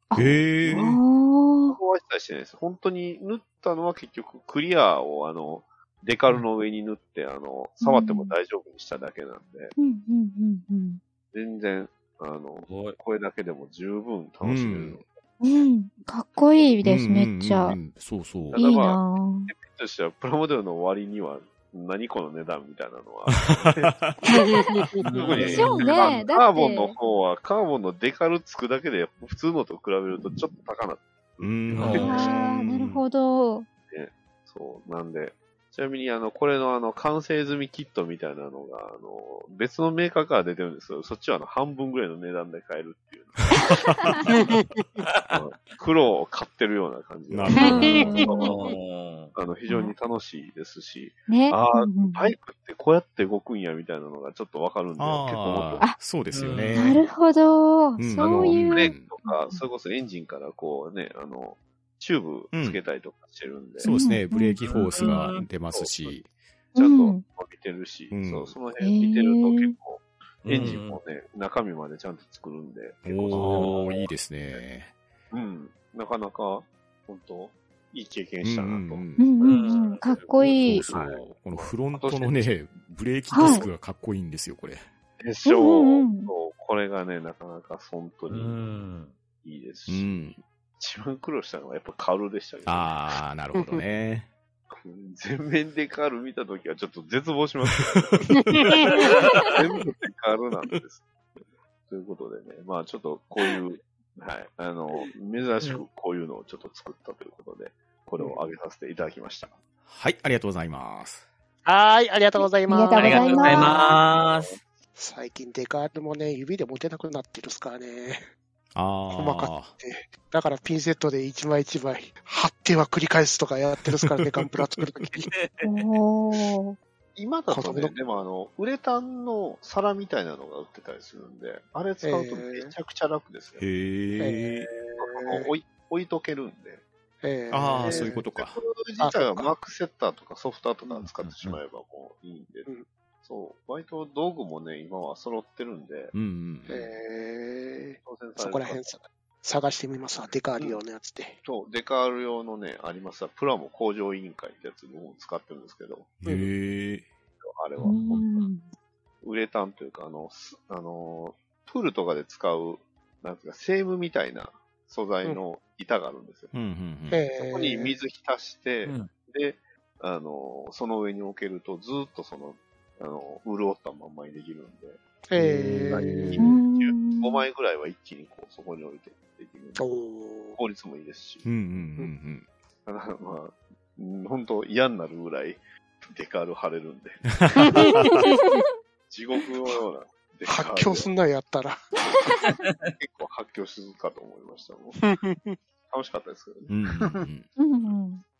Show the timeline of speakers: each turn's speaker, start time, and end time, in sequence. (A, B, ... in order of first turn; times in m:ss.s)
0:00.1-0:01.8 A
0:00.2-0:01.0 B
0:00.6-0:01.0 C
0:01.7-0:09.8 C
0:07.8-0:08.3 A
0:09.8-0:11.0 A
0:11.3-0:15.1 C
0:12.7-0:13.0 D
0:14.4-0:15.0 B
0:15.4-0:17.8 A
0:16.3-0:16.7 C
0:16.8-0:18.6 B
0:18.5-0:23.9 C
0:18.6-0:19.5 A
0:23.3-0:24.2 B
0:24.2-0:24.9 A
0:24.3-0:25.0 E
0:25.0-0:26.2 D
0:25.1-0:32.4 C
0:25.4-0:27.0 A
0:31.4-0:33.0 B
0:31.7-0:32.3 D
0:32.0-0:33.7 A
0:33.9-0:44.0 C
0:43.5-0:44.4 A
0:45.0-0:45.4 D
0:45.3-0:48.6 C
0:47.3-0:48.2 B
0:47.5-0:48.6 A
0:47.6-0:47.9 E
0:47.6-0:49.4 D
0:49.4-0:55.9 C
0:49.7-0:49.9 A
0:51.3-0:52.3 A
0:55.0-0:57.0 B
0:56.3-0:57.0 D
0:56.8-0:59.6 A
0:58.0-0:59.1 B
0:58.2-1:03.9 C
1:02.5-1:02.8 B
1:03.8-1:04.6 A
1:03.8-1:06.3 B
1:04.6-1:05.4 D
1:05.0-1:06.2 C
1:06.7-1:07.2 A
1:06.8-1:14.0 C
1:08.1-1:08.6 B
1:08.8-1:09.8 A
1:10.5-1:11.0 D
1:13.0-1:14.9 B
1:13.3-1:14.1 D
1:15.3-1:22.5 C
1:18.4-1:19.3 B
1:19.2-1:20.9 A
1:19.4-1:20.2 D
1:20.4-1:24.9 B
1:23.3-1:23.7 A
1:23.4-1:23.7 C
1:25.2-1:28.6 C
1:25.4-1:26.3 A
1:28.3-1:29.1 D
1:29.4-1:30.3 C
1:29.9-1:30.4 B
1:30.8-1:33.0 C
1:32.7-1:34.3 B
1:34.7-1:41.1 C
1:38.8-1:39.5 D
1:39.2-1:39.5 A
1:41.9-1:49.6 C
1:49.9-1:51.2 B
1:51.6-1:53.7 E
1:52.4-1:54.0 A
1:53.0-1:54.6 D
1:55.0-1:58.2 E
1:58.8-1:59.8 B
1:59.1-2:05.3 E
2:04.0-2:04.4 B
2:05.3-2:05.8 D
2:05.6-2:06.8 A
2:07.2-2:13.7 C
2:07.5-2:07.9 E
2:12.0-2:12.7 E
2:13.6-2:14.7 B
2:14.2-2:15.5 E
2:15.0-2:16.8 C
2:17.2-2:18.2 E
2:17.5-2:18.6 B
2:17.8-2:22.7 C
2:19.0-2:19.5 E
2:21.0-2:21.6 D
2:23.2-2:26.2 C
2:26.1-2:26.8 B
2:26.7-2:31.4 E
2:28.0-2:28.8 C
2:31.4-2:36.2 C
2:36.2-2:37.1 B
2:37.4-2:38.5 C
2:37.8-2:38.7 A
2:39.2-2:46.5 C
2:46.5-2:47.2 B
2:47.1-2:48.0 E
2:47.5-2:55.0 C
2:48.8-2:49.1 D
2:55.3-2:56.5 E
2:55.4-2:56.6 B
2:55.9-2:59.9 C
2:56.4-2:57.5 A
2:59.8-3:00.6 E
3:00.6-3:01.5 C
3:01.4-3:02.5 B
3:02.9-3:07.9 C
3:07.4-3:08.3 B
3:07.6-3:07.9 E
3:07.8-3:08.7 A
3:09.1-3:11.1 C
3:10.5-3:11.9 E
3:12.1-3:12.6 A
3:12.5-3:12.9 D
3:13.0-3:15.0 C
3:15.0-3:15.6 E
3:15.9-3:17.3 C
3:16.7-3:17.5 B
3:17.6-3:18.2 A